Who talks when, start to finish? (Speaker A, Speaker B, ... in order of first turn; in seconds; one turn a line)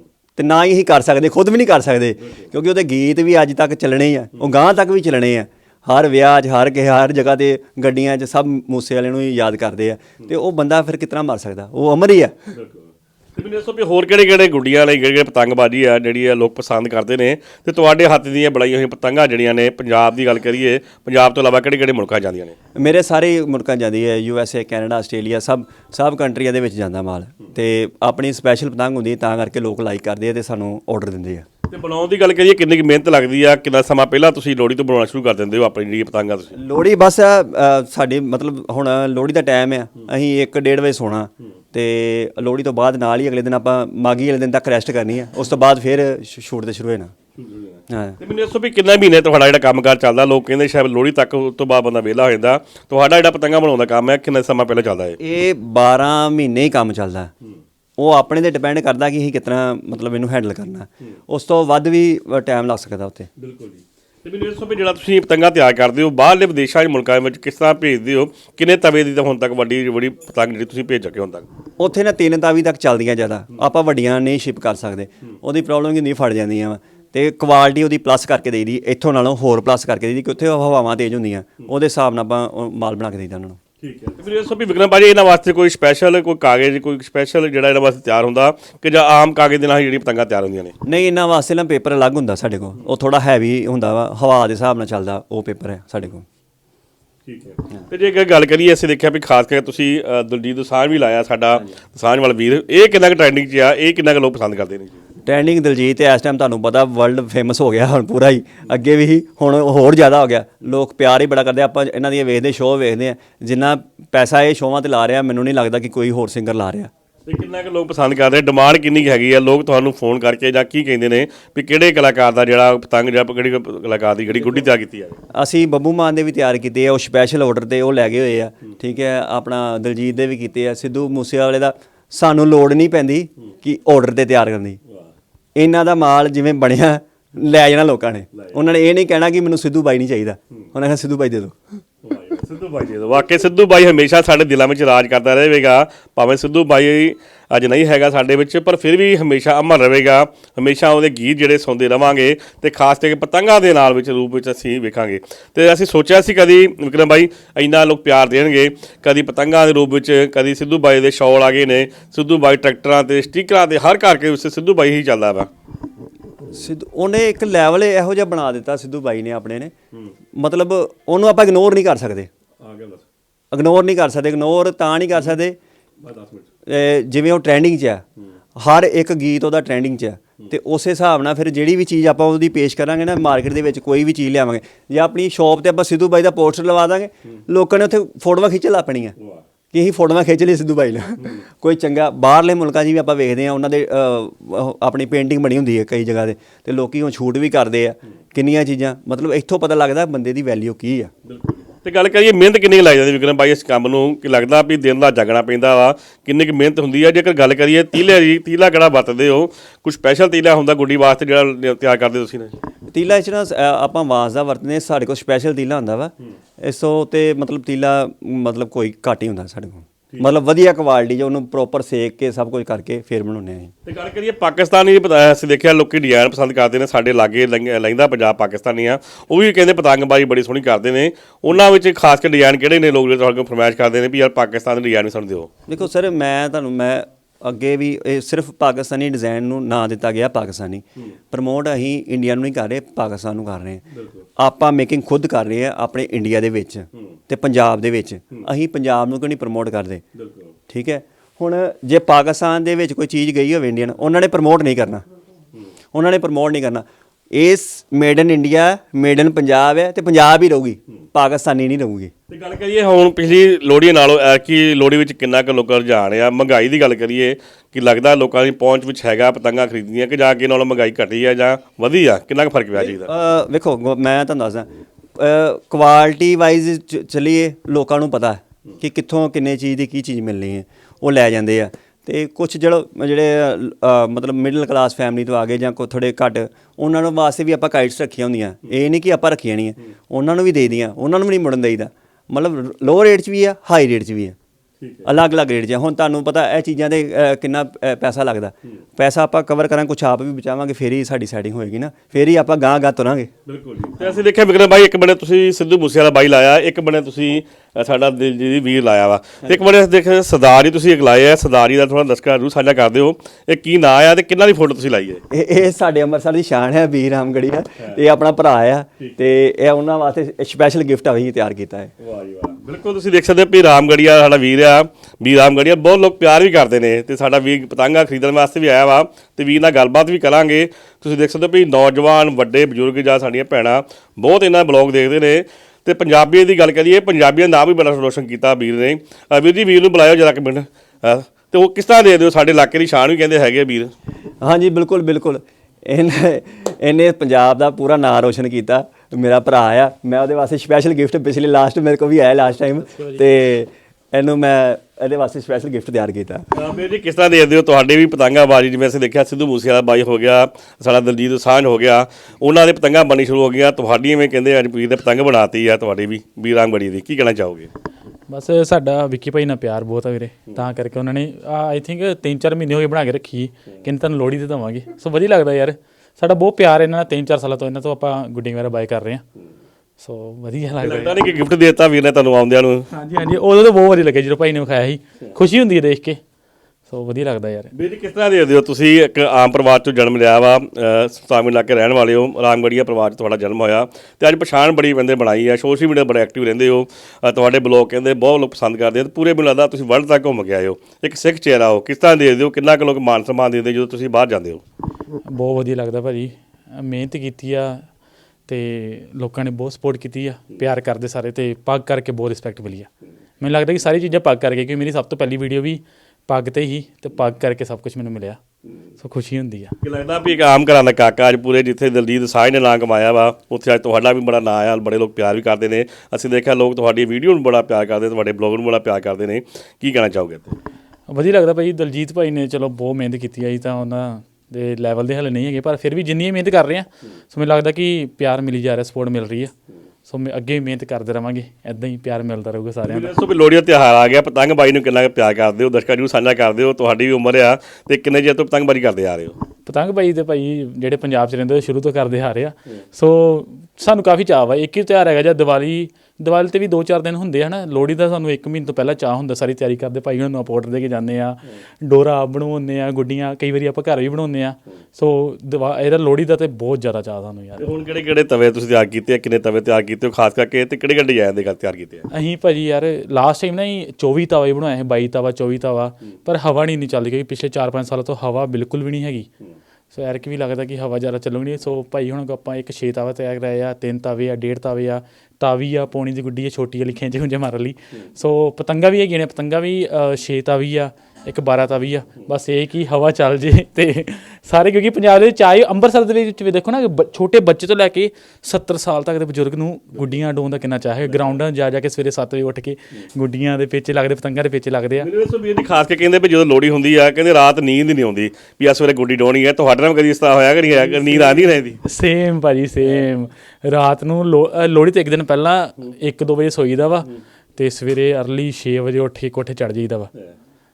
Speaker A: 0.3-12.3
Speaker B: 12.5-22.5
Speaker A: 22.8-31.5
Speaker B: 31.7-36.6
Speaker A: 36.5-47.1
Speaker B: 47.4-55.2
Speaker A: 47.9-48.2
Speaker A: 55.2-57.3
Speaker A: 58.0-63.3
Speaker B: 63.4-71.5
Speaker A: 71.8-83.6
Speaker B: 83.8-90.7
Speaker A: 90.8-96.2
Speaker B: 97.2-105.0
Speaker A: 105.2-116.9
Speaker B: 117.3-125.2
Speaker A: 125.3-134.8
Speaker A: 135.6-141.6
Speaker B: 142.0-165.5
Speaker A: 166.5-169.7
Speaker A: 170.3-172.3
Speaker B: 172.6-173.1
Speaker A: 173.5-175.6
Speaker B: 176.0-176.5
Speaker A: 176.7-178.0
Speaker A: 178.6-189.2
Speaker A: 189.7-201.1
Speaker B: 201.2-212.6
Speaker A: 212.9-223.7
Speaker B: 223.8-235.5
Speaker A: 235.7-243.8
Speaker B: 243.9-244.2
Speaker A: 244.4-250.0
Speaker B: 250.2-250.5
Speaker A: 250.7-255.1
Speaker A: 255.9-262.1
Speaker B: 262.3-273.1
Speaker A: 272.8-294.4
Speaker B: 294.8-295.1
Speaker A: 295.1-303.3
Speaker B: 303.4-315.2
Speaker A: 315.3-321.9
Speaker B: 322.0-343.9
Speaker A: 344.4-356.5
Speaker B: 356.5-367.7
Speaker C: 368.3-379.2
Speaker C: 380.0-381.2
Speaker B: 380.8-382.9
Speaker C: 382.9-386.2
Speaker C: 386.9-387.7
Speaker B: 387.7-404.6
Speaker C: 405.3-407.8
Speaker C: 408.5-412.9
Speaker C: 413.4-418.4
Speaker C: 419.0-419.7
Speaker B: 419.8-430.6
Speaker C: 431.1-439.5
Speaker C: 440.1-443.1
Speaker B: 442.9-449.4
Speaker C: 449.7-467.7
Speaker B: 467.6-472.1
Speaker C: 472.1-479.3
Speaker C: 479.9-505.1
Speaker B: 505.0-511.8
Speaker C: 511.0-520.1